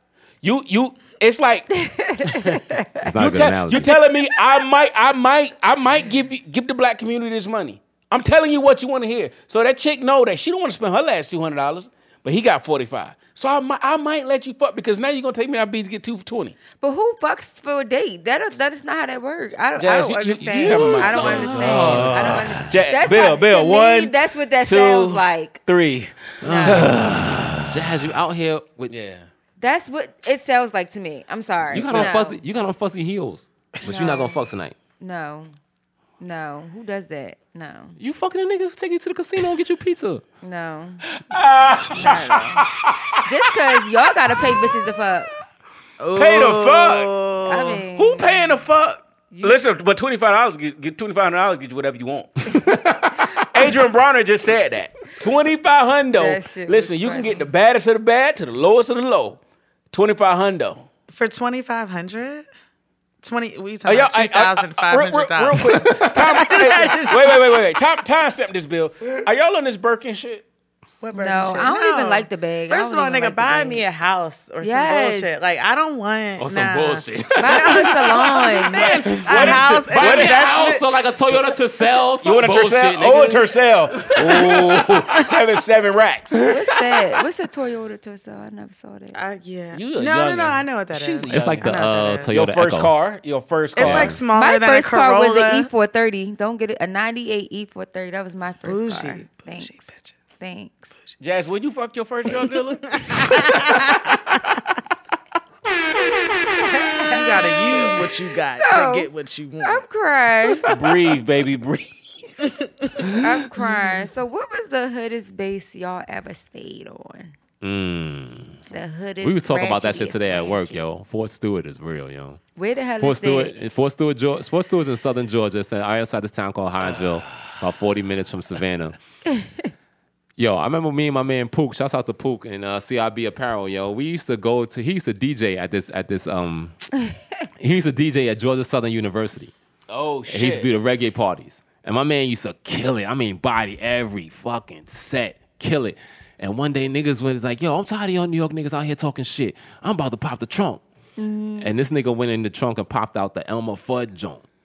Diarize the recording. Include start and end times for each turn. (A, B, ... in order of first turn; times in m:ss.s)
0:00.4-0:01.7 A
0:01.8-0:03.1 B
0:02.2-0:02.6 A
0:03.0-0:03.9 C
0:03.2-0:16.6 A
0:16.8-0:25.6 B
0:19.8-0:27.7 A
0:20.5-0:22.8 C
0:26.4-0:28.9 C
0:26.4-0:26.9 B
0:28.9-0:29.3 A
0:29.6-0:32.4 B
0:31.7-0:34.8 C
0:33.8-0:34.4 B
0:35.0-0:35.5 B
0:36.2-0:38.0 B
0:38.0-0:40.2 C
0:40.4-0:41.2 B
0:41.3-0:42.4 A
0:42.0-0:42.6 B
0:43.2-0:45.3 B
0:46.0-0:47.8 D
0:46.2-0:47.1 A
0:47.4-0:48.6 B
0:47.9-0:52.5 A
0:49.3-0:49.6 B
0:52.4-0:53.4 C
0:53.5-0:59.4 A
0:56.1-0:57.4 B
0:59.9-1:00.8 A
1:01.1-1:02.4 D
1:03.2-1:07.6 D
1:03.8-1:10.4 A
1:05.6-1:06.7 C
1:11.0-1:20.8 D
1:11.1-1:13.8 B
1:14.6-1:15.4 B
1:16.4-1:24.8 C
1:17.4-1:18.9 B
1:19.2-1:20.5 A
1:22.2-1:26.4 A
1:26.4-1:27.2 C
1:26.4-1:29.2 B
1:29.1-1:32.3 D
1:29.7-1:31.7 A
1:31.3-1:32.9 C
1:32.3-1:34.1 A
1:33.8-1:35.7 D
1:33.8-1:34.2 C
1:34.3-1:41.0 B
1:38.6-1:40.1 D
1:41.2-1:43.0 A
1:42.9-1:44.6 D
1:46.6-1:48.0 B
1:47.1-1:49.8 D
1:48.5-1:49.1 B
1:49.6-1:50.7 B
1:50.6-1:50.9 C
1:50.7-1:51.9 A
1:52.5-1:52.9 D
1:53.2-1:57.3 B
1:53.6-1:54.0 D
1:57.6-1:58.6 C
1:58.7-2:00.8 B
1:59.2-2:02.4 C
2:02.5-2:03.5 B
2:03.0-2:09.0 C
2:10.4-2:16.8 C
2:17.6-2:19.5 C
2:19.9-2:20.7 A
2:20.3-2:30.8 C
2:31.2-2:31.7 B
2:31.6-2:34.4 C